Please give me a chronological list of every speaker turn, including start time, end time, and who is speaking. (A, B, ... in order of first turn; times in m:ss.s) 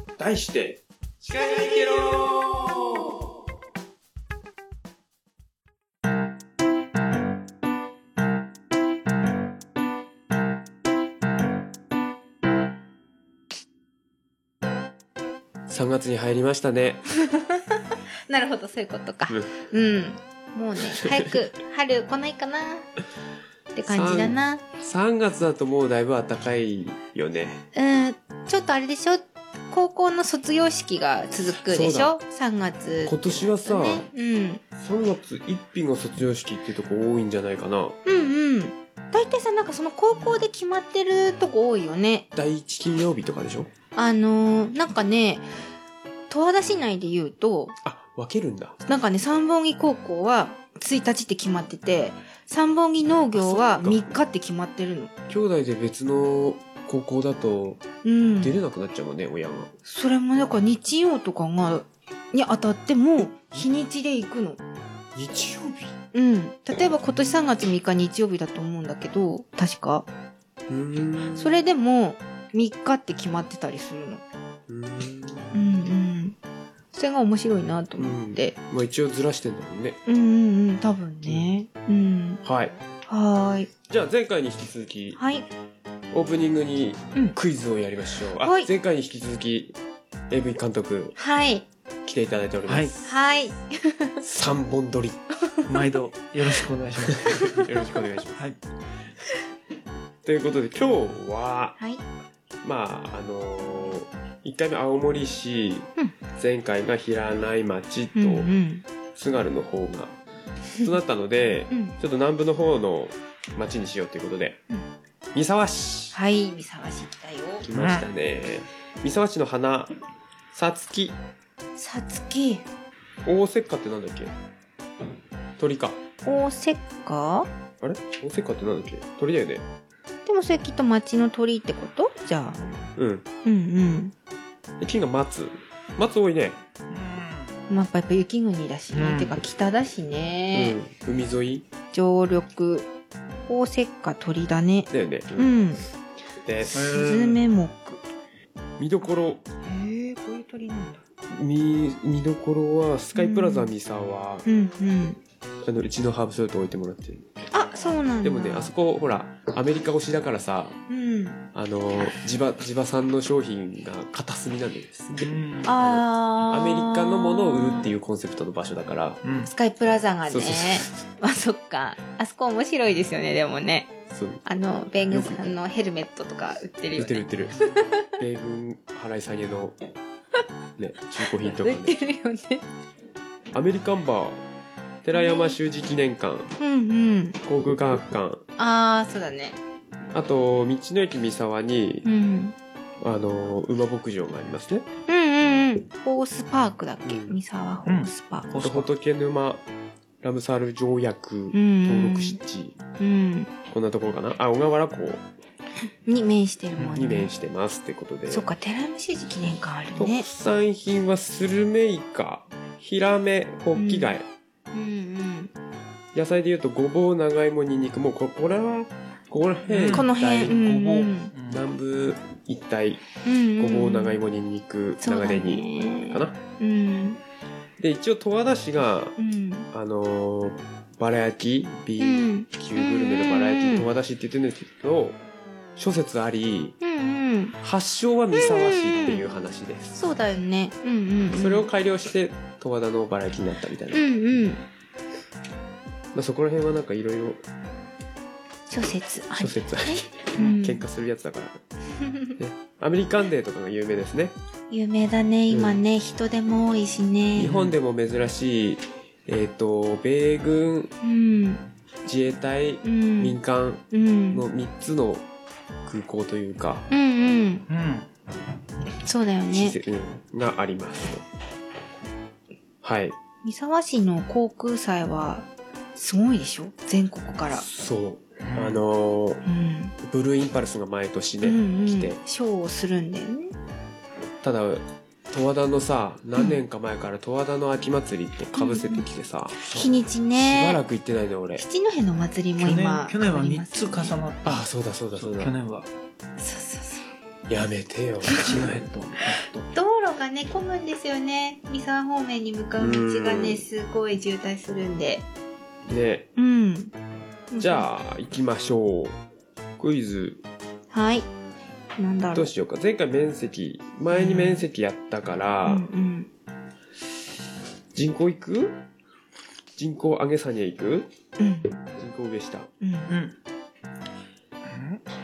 0:00.2-0:03.2 A
0:15.7-0:17.0 B
0:17.2-0:22.9 C
0:21.0-0:21.4 B
0:23.7-0:24.6 C
0:23.9-0:27.6 B
0:27.7-0:34.6 C
0:31.6-0:32.2 B
0:33.0-0:34.1 B
0:34.8-0:38.0 B
0:38.0-0:42.3 C
0:42.3-0:43.7 B
0:44.0-0:45.5 C
0:46.3-0:47.8 C
0:47.8-0:48.8 B
0:48.9-0:55.1 C
0:53.3-0:54.2 B
0:55.3-0:57.8 B
0:58.0-0:58.6 C
0:58.4-0:59.7 B
0:59.8-1:04.6 C
1:05.1-1:05.9 B
1:06.1-1:10.0 C
1:10.7-1:11.6 B
1:11.4-1:14.2 C
1:14.7-1:15.9 B
1:15.5-1:16.4 C
1:16.9-1:18.5 C
1:18.0-1:20.0 B
1:20.0-1:22.4 C
1:22.4-1:22.7 B
1:23.1-1:23.7 C
1:23.9-1:25.2 B
1:25.2-1:25.5 C
1:26.1-1:29.8 B
1:28.4-1:28.7 C
1:30.3-1:31.2 B
1:31.2-1:31.6 C
1:32.0-1:33.1 B
1:32.7-1:32.9 D
1:33.0-1:34.2 C
1:34.2-1:35.2 B
1:35.7-1:37.5 D
1:37.1-1:38.4 B
1:40.2-1:41.8 B
1:42.6-1:48.5 B
1:48.2-1:48.8 C
1:49.1-1:50.1 B
1:50.8-1:54.6 B
1:55.3-1:56.2 B
1:56.1-1:57.7 C
1:57.6-2:00.0 B
1:57.7-1:58.1 D
2:00.5-2:01.2 B
2:01.8-2:02.6 C
2:03.2-2:04.3 B
2:05.6-2:06.0 B
2:06.2-2:07.5 C
2:07.8-2:09.6 B
2:10.2-2:12.7 C
2:13.0-2:13.2 B
2:13.4-2:14.1 C
2:14.8-2:16.6 B
2:16.9-2:17.5 D
2:17.7-2:20.8 C
2:18.9-2:19.4 D
2:20.5-2:21.6 B
2:21.9-2:22.9 C
2:23.5-2:25.9 C
2:24.9-2:25.6 B
2:26.4-2:26.8 B
2:26.7-2:27.4 D
2:26.8-2:28.0 C
2:28.8-2:29.4 B
2:29.6-2:31.0 C
2:31.3-2:34.4 B
2:33.1-2:33.7 C
2:34.4-2:35.2 C
2:35.6-2:37.3 B
2:37.5-2:38.7 C
2:38.2-2:40.8 B
2:40.9-2:41.4 C
2:41.5-2:49.2 B
2:45.2-2:45.8 D
2:45.6-2:47.9 C
2:49.2-2:49.5 D
2:49.4-2:53.9 C
2:50.3-2:51.0 B
2:54.1-2:54.4 B
2:54.4-2:58.0 C
2:55.1-2:55.4 B
2:57.0-2:57.5 B
2:58.2-2:59.8 B
3:00.8-3:02.0 B
3:01.4-3:02.6 C
3:03.5-3:04.4 B
3:05.0-3:06.5 B
3:05.1-3:05.6 C
3:06.6-3:07.4 C
3:07.4-3:08.4 B
3:08.6-3:09.6 C
3:10.1-3:12.1 B
3:12.0-3:12.6 C
3:13.0-3:14.9 B
3:15.1-3:18.5 C
3:17.0-3:17.4 B
3:17.8-3:18.9 D
3:18.5-3:19.6 B
3:20.2-3:22.8 B
3:21.5-3:22.4 C
3:23.0-3:23.5 C
3:23.7-3:25.2 B
3:25.9-3:27.3 C
3:26.8-3:27.1 D
3:26.9-3:28.5 B
3:28.3-3:30.3 C
3:30.0-3:34.2 B
3:33.7-3:34.1 C
3:34.7-3:35.5 C
3:36.1-3:40.6 B
3:39.7-3:41.6 D
3:39.9-3:41.3 C
3:41.5-3:43.0 B
3:43.2-3:44.2 C
3:43.6-3:46.4 B
3:45.0-3:47.2 C
3:47.8-3:49.2 B
3:49.2-3:49.7 C
3:49.7-3:55.2 B
3:52.0-3:53.9 C
3:55.8-3:56.8 B
3:56.8-3:57.6 C
3:57.6-4:00.0 B
3:58.3-3:59.2 C
3:59.9-4:01.7 C
4:01.3-4:04.0 B
4:03.9-4:04.6 C
4:06.1-4:07.4 B
4:08.7-4:10.8 C
4:09.3-4:11.6 B
4:12.0-4:12.3 C
4:12.4-4:14.3 B
4:14.7-4:17.5 C
4:15.5-4:15.8 B
4:17.4-4:20.9 B
4:17.4-4:17.7 D
4:21.0-4:21.6 C
4:22.0-4:25.2 B
4:22.8-4:23.4 C
4:23.9-4:24.4 C
4:25.8-4:26.9 B
4:26.9-4:27.6 C
4:27.7-4:28.1 D
4:29.0-4:29.8 C
4:29.5-4:31.2 B
4:32.8-4:33.2 B
4:33.4-4:37.6 C
4:37.5-4:39.4 B
4:38.4-4:38.8 D
4:39.4-4:39.9 C
4:40.0-4:42.2 B
4:41.4-4:43.5 C
4:44.4-4:51.6 B
4:48.6-4:49.0 C
4:49.6-4:50.8 C
4:51.6-4:54.2 C
4:52.6-4:55.9 D
4:54.4-4:55.6 B
4:56.4-4:57.1 C
4:57.5-4:58.9 B
4:58.4-4:59.6 D
4:59.7-5:05.2 C
5:02.8-5:03.6 B
5:05.9-5:06.3 B
5:06.4-5:06.9 C
5:07.5-5:07.9 C
5:07.6-5:09.2 B
5:09.8-5:10.4 B
5:10.9-5:11.3 C
5:12.0-5:12.5 C
5:12.3-5:15.9 B
5:14.1-5:14.6 C
5:15.6-5:16.3 C
5:17.9-5:18.8 B
5:19.8-5:21.1 B
5:21.4-5:21.7 C
5:21.9-5:22.7 B
5:22.8-5:23.1 C
5:23.1-5:23.3 D
5:24.6-5:25.0 D